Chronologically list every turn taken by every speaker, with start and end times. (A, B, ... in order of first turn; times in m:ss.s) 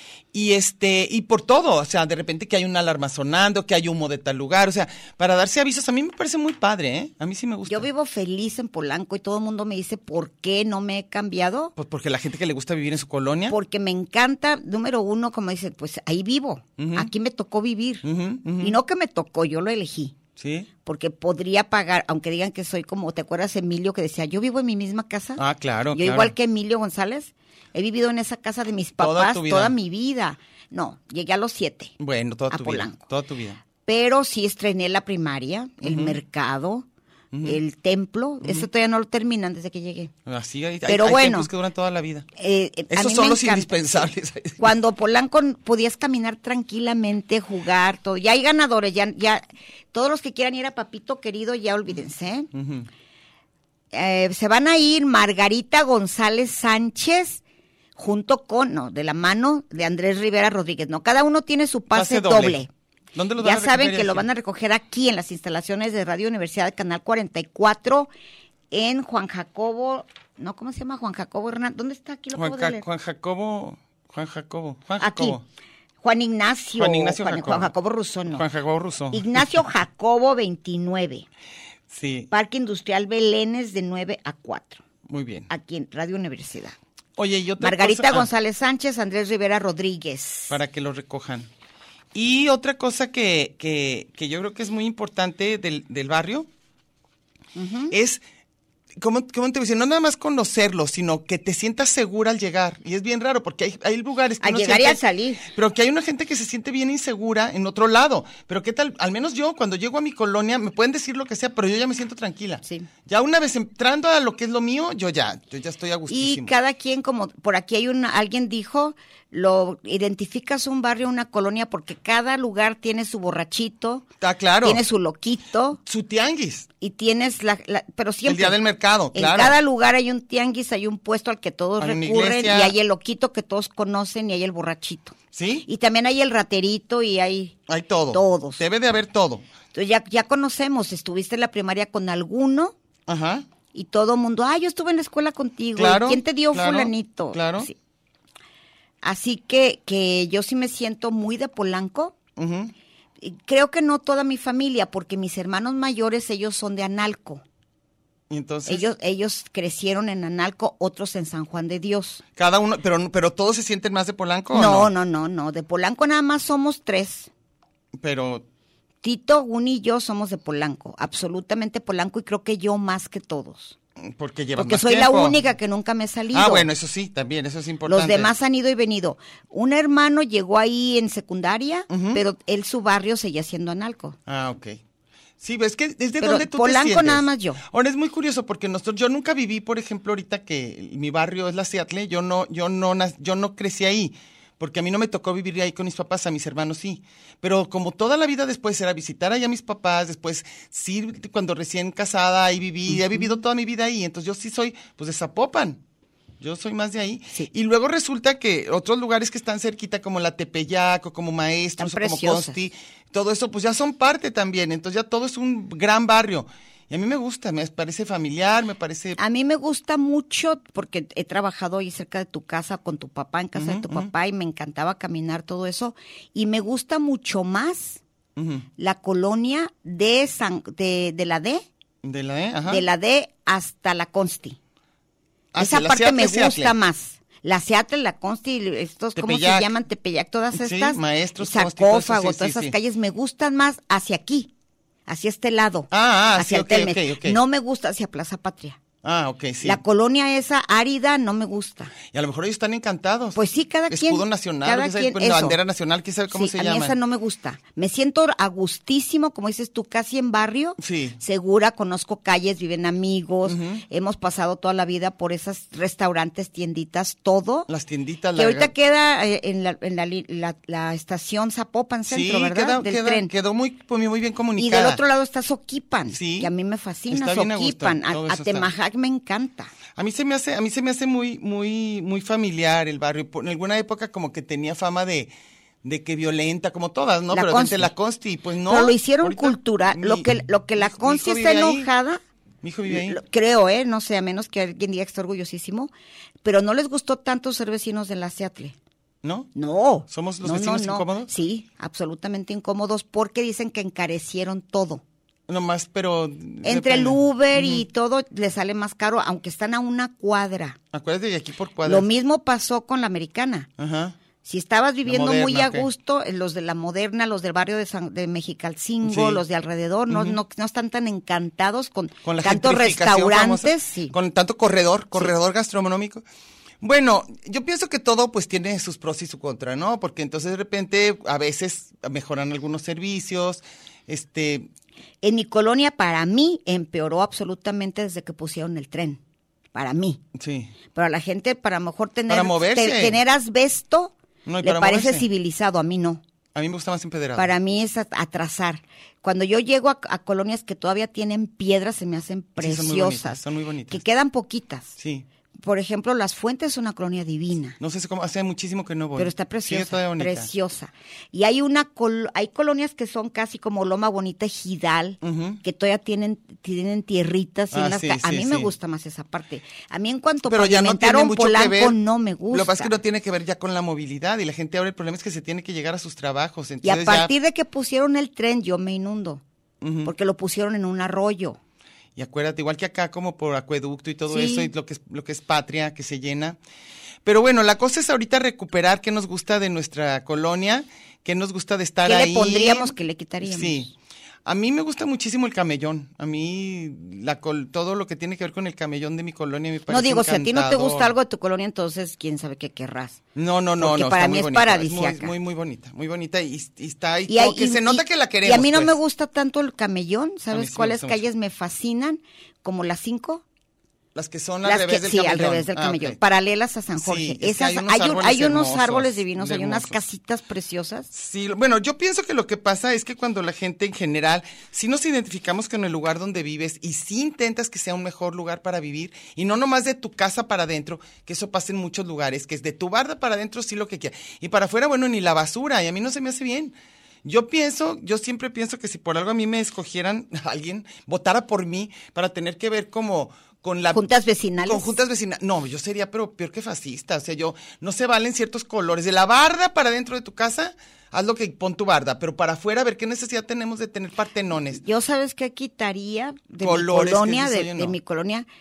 0:00.3-0:07.9 A
0:07.7-0:11.7 B
0:11.8-0:13.6 A
0:13.5-0:18.0 B
0:16.8-0:17.1 A
0:18.0-0:18.8 A
0:18.6-0:20.2 B
0:20.4-0:20.7 A
0:20.8-0:25.4 B
0:25.4-0:26.3 A
0:25.9-0:31.9 B
0:29.0-0:29.8 A
0:32.0-0:33.6 A
0:32.5-0:33.0 B
0:33.8-0:36.9 B
0:35.8-0:36.2 A
0:37.3-0:37.6 A
0:37.4-0:40.1 B
0:40.2-0:42.3 A
0:40.9-0:41.5 B
0:42.4-0:43.7 B
0:42.9-0:44.7 A
0:44.6-0:52.5 B
0:52.5-0:52.9 A
0:53.9-0:57.4 B
0:58.0-1:02.7 B
1:01.9-1:02.6 A
1:03.2-1:04.3 A
1:03.4-1:08.1 B
1:08.7-1:12.8 B
1:12.4-1:15.4 A
1:15.0-1:15.4 B
1:16.0-1:18.4 B
1:16.8-1:17.7 A
1:18.3-1:19.5 A
1:19.1-1:21.2 B
1:21.9-1:22.3 A
1:22.3-1:24.8 B
1:25.1-1:25.5 A
1:25.5-1:26.8 B
1:27.2-1:28.3 A
1:27.6-1:30.6 B
1:30.5-1:31.5 A
1:32.1-1:36.5 A
1:37.6-1:37.9 B
1:37.9-1:38.2 A
1:39.0-1:56.5 A
1:44.4-1:45.5 B
1:56.1-2:04.1 B
2:04.2-2:04.8 A
2:04.6-2:05.8 B
2:05.9-2:06.7 A
2:06.8-2:08.6 B
2:08.2-2:09.6 A
2:09.1-2:17.6 B
2:11.8-2:12.8 A
2:15.3-2:15.7 A
2:17.7-2:19.5 A
2:18.1-2:18.6 B
2:19.7-2:22.8 B
2:23.1-2:23.5 A
2:23.7-2:27.8 B
2:25.8-2:27.7 A
2:29.0-2:32.1 B
2:32.4-2:32.7 A
2:33.2-2:37.4 B
2:38.3-2:38.9 A
2:38.6-2:42.2 B
2:42.4-2:44.9 A
2:44.5-2:47.3 B
2:48.0-2:48.4 A
2:49.0-2:53.8 B
2:54.0-2:55.4 A
2:54.6-2:56.7 B
2:56.3-2:58.3 A
2:57.9-3:04.2 B
3:01.9-3:02.2 A
3:04.3-3:04.8 A
3:05.4-3:25.8 A
3:06.2-3:07.6 B
3:26.4-3:39.2 A
3:31.8-3:32.6 B
3:39.2-3:48.0 B
3:43.6-3:44.1 A
3:48.4-3:48.7 A
3:48.8-3:51.6 B
3:52.0-3:52.9 A
3:52.6-3:54.6 B
3:55.5-3:56.8 A
3:55.6-4:04.5 B
3:59.1-3:59.7 A
4:00.5-4:02.8 A
4:05.1-4:08.8 B
4:05.9-4:07.4 A
4:09.0-4:09.8 A
4:09.6-4:11.9 B
4:12.1-4:17.0 A
4:13.4-4:15.6 B
4:16.3-4:27.7 B
4:20.8-4:21.2 A
4:23.4-4:23.8 A
4:27.7-4:28.7 A
4:28.4-4:33.3 B
4:32.1-4:35.0 A
4:34.6-4:39.7 B
4:36.1-4:36.5 A
4:37.1-4:38.7 A
4:40.0-4:45.3 A
4:45.8-4:51.9 A
4:47.3-4:47.9 B
4:48.6-4:52.2 B
4:52.6-4:53.2 A
4:52.9-4:55.9 B
4:56.4-4:58.8 B
4:59.2-4:59.5 A
4:59.6-5:05.0 B
5:00.1-5:01.3 A
5:05.5-5:07.8 A
5:06.6-5:10.8 B
5:10.9-5:12.1 A
5:11.8-5:13.7 B
5:13.8-5:14.2 A
5:14.4-5:24.1 B
5:15.0-5:15.9 A
5:19.0-5:19.4 A
5:20.1-5:20.4 A
5:22.2-5:26.2 A
5:26.8-5:34.7 A
5:35.2-5:39.2 B
5:39.7-5:40.2 B
5:40.4-5:40.7 A
5:40.9-5:46.2 B
5:42.3-5:43.2 A
5:44.5-5:45.3 A
5:46.5-5:47.5 A
5:47.4-5:55.0 B
5:52.6-5:54.0 A
5:55.0-5:55.3 A
5:55.6-5:57.8 B
5:57.8-6:00.5 A
5:59.2-6:13.0 B
6:05.2-6:05.6 A
6:07.7-6:08.7 A
6:10.5-6:12.0 A
6:12.5-6:17.3 A
6:16.8-6:19.4 B
6:19.8-6:20.1 A
6:20.0-6:21.6 B
6:22.2-6:26.6 A
6:24.3-6:24.7 B
6:27.2-6:33.9 A
6:32.0-6:33.9 B
6:34.4-6:41.1 A
6:39.9-6:43.2 B
6:43.4-6:49.0 A
6:43.8-6:45.3 B
6:47.3-6:53.4 B
6:50.5-6:51.2 A
6:54.1-6:56.2 A
6:54.6-7:01.1 B
6:57.0-7:00.0 A
7:01.1-7:24.0 A
7:23.9-7:25.0 B
7:24.6-7:34.8 A
7:34.8-7:38.5 B
7:36.6-7:38.0 A